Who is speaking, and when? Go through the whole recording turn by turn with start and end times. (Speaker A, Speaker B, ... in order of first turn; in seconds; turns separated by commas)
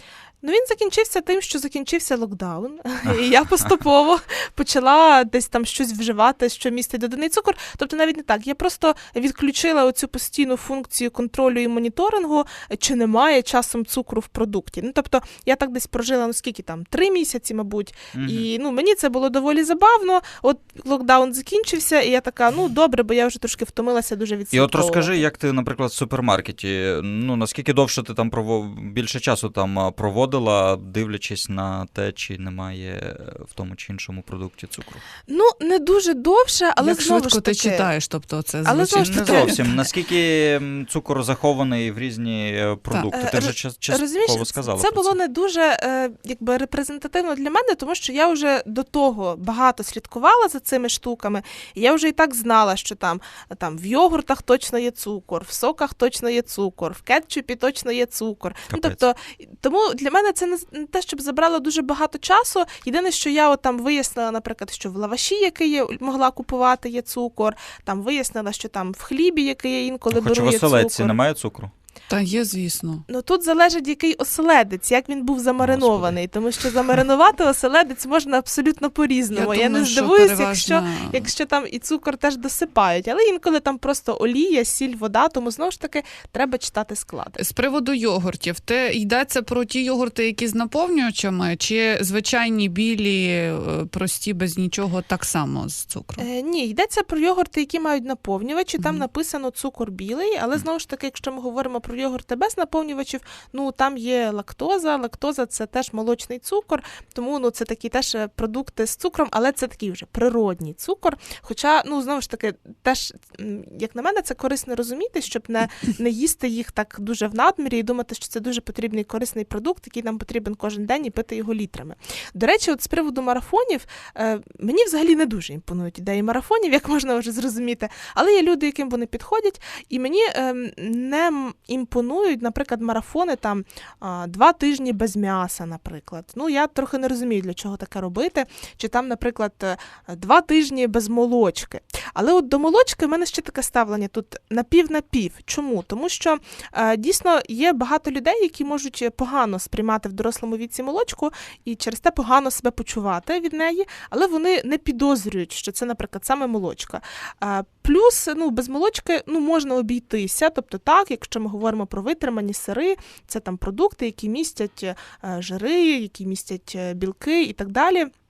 Speaker A: 0.4-25.2, Speaker B: 18.1-18.5, Speaker B: 24.5-35.0, Speaker A: 35.3-37.9, Speaker C: 36.8-39.9, Speaker A: 38.6-39.6, Speaker B: 39.0-45.1, Speaker A: 43.1-71.2, Speaker B: 58.7-59.0, Speaker B: 70.1-71.7, Speaker C: 72.1-73.0, Speaker A: 73.1-87.4, Speaker B: 75.6-76.2, Speaker C: 79.3-81.3, Speaker C: 87.3-96.2, Speaker A: 96.2-168.1